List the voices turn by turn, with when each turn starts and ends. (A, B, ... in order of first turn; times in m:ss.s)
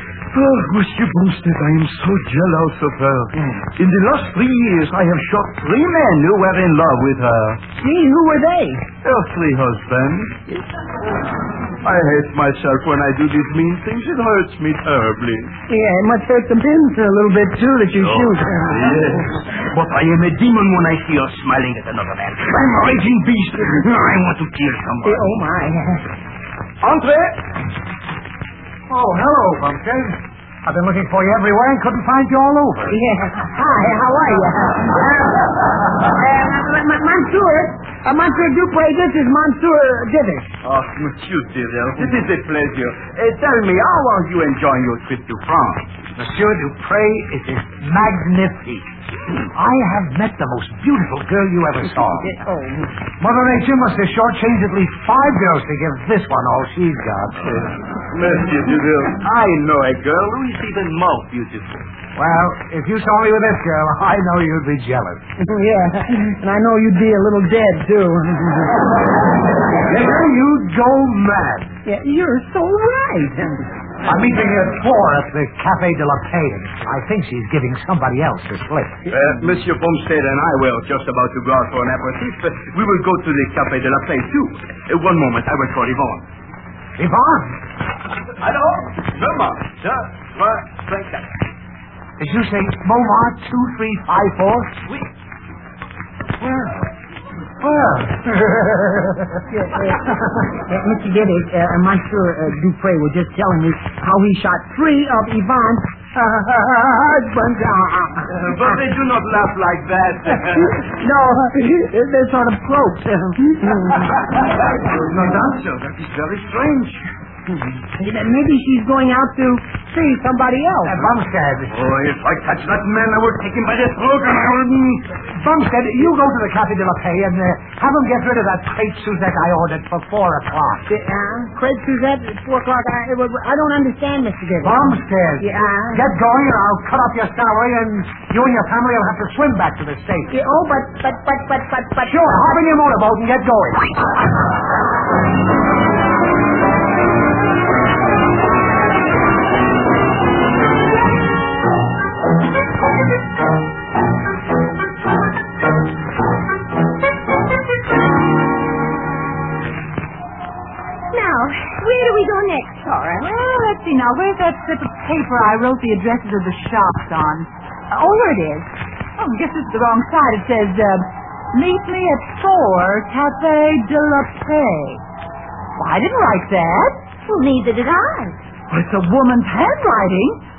0:00.3-0:07.6 A
0:07.8-0:08.9 B
0:09.0-0:10.6 A
0:11.8-0:15.5 A
0:15.7-0:19.2 B
0:17.9-0:25.4 A
0:25.0-0:26.1 B
0:26.8-0:27.4 A
0:28.9-0:33.0 C
0:32.9-0:40.5 B
0:40.6-0:45.9 A
0:46.2-0:48.8 C
0:49.5-0:52.3 C
0:52.2-0:52.9 B
0:53.2-0:57.5 C
0:57.4-1:01.9 A
1:02.1-1:05.2 C
1:05.4-1:08.8 B
1:09.8-1:11.7 C
1:11.8-1:13.6 B
1:14.0-1:19.0 C
1:19.1-1:26.2 A
1:27.0-1:27.6 C
1:28.4-1:31.3 A
1:32.2-1:34.8 C
1:37.6-1:39.4 C
1:39.5-1:48.8 B
1:48.3-1:50.8 A
1:50.3-1:54.2 B
1:54.0-1:57.0 A
1:58.0-2:01.0 B
2:00.8-2:01.7 C
2:01.7-2:05.1 A
2:05.3-2:10.9 C
2:10.9-2:16.0 B
2:14.6-2:20.4 C
2:20.3-2:22.5 B
2:22.0-2:23.9 C
2:41.1-2:43.3 D
2:43.2-2:55.0 E
2:55.8-2:57.1 E
2:57.2-2:58.4 D
2:58.7-3:00.4 E